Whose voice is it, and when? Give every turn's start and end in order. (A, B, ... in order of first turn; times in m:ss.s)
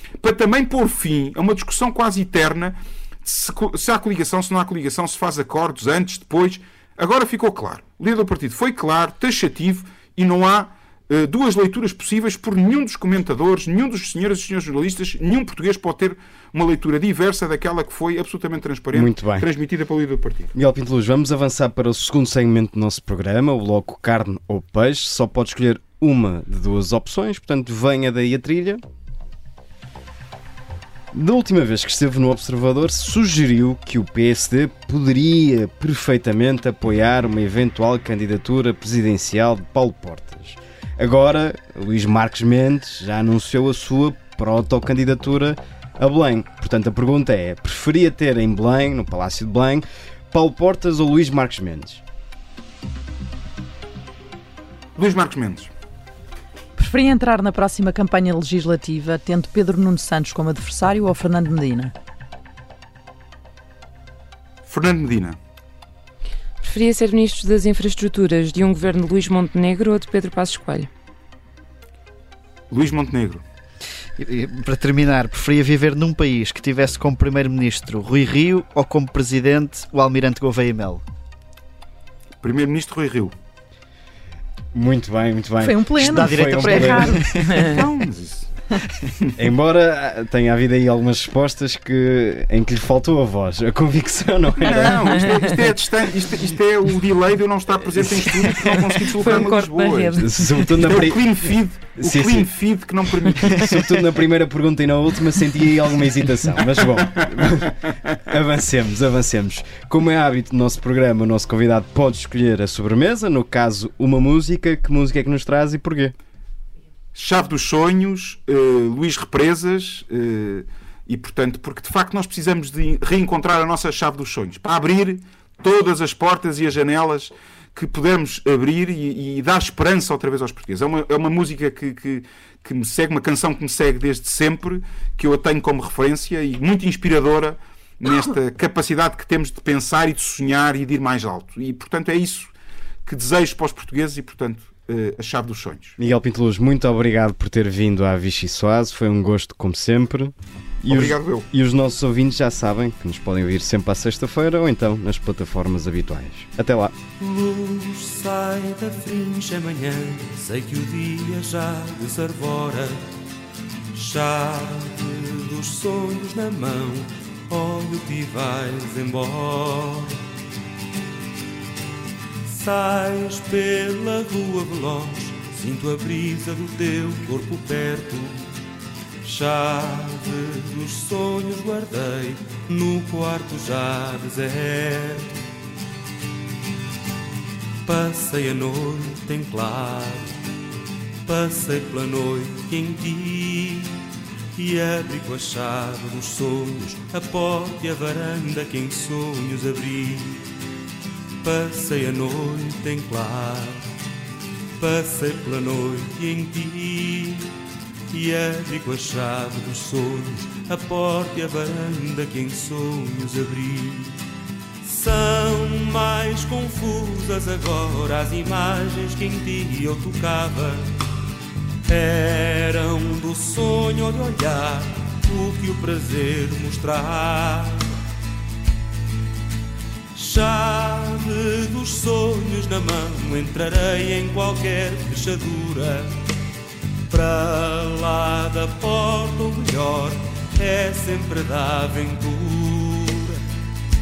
0:00.2-0:20.5 A
0:18.9-0:19.5 B
0:20.5-0:28.8 B
0:31.1-0:52.0 B
0:55.0-0:55.7 A
0:56.8-1:01.9 C
1:04.6-1:05.4 A
1:06.6-1:10.9 D
1:12.7-1:13.4 A
1:14.2-1:21.0 E
1:22.4-1:23.3 A
1:24.7-1:27.3 B
1:25.6-1:27.3 C
1:26.0-1:27.8 E
1:27.4-1:28.5 A
1:29.4-1:35.3 B
1:34.6-1:40.2 A
1:39.0-1:40.9 D
1:40.2-1:42.5 B
1:40.8-1:43.9 A
1:43.4-1:56.1 B
1:47.0-1:47.7 A
1:57.1-2:22.5 A
2:23.0-2:26.0 A
2:26.0-2:36.9 B
2:30.9-2:31.4 A
2:37.2-2:43.0 F
2:43.9-2:50.2 F
2:52.4-2:58.5 F
2:59.2-3:05.4 F
3:07.8-3:10.3 F
3:11.2-3:14.0 F
3:14.5-3:20.4 F
3:21.4-3:23.9 F
3:24.8-3:27.5 F
3:28.1-3:34.2 F
3:34.8-3:40.8 F
3:41.8-3:47.8 F
3:50.1-3:56.1 F
3:57.1-4:03.4 F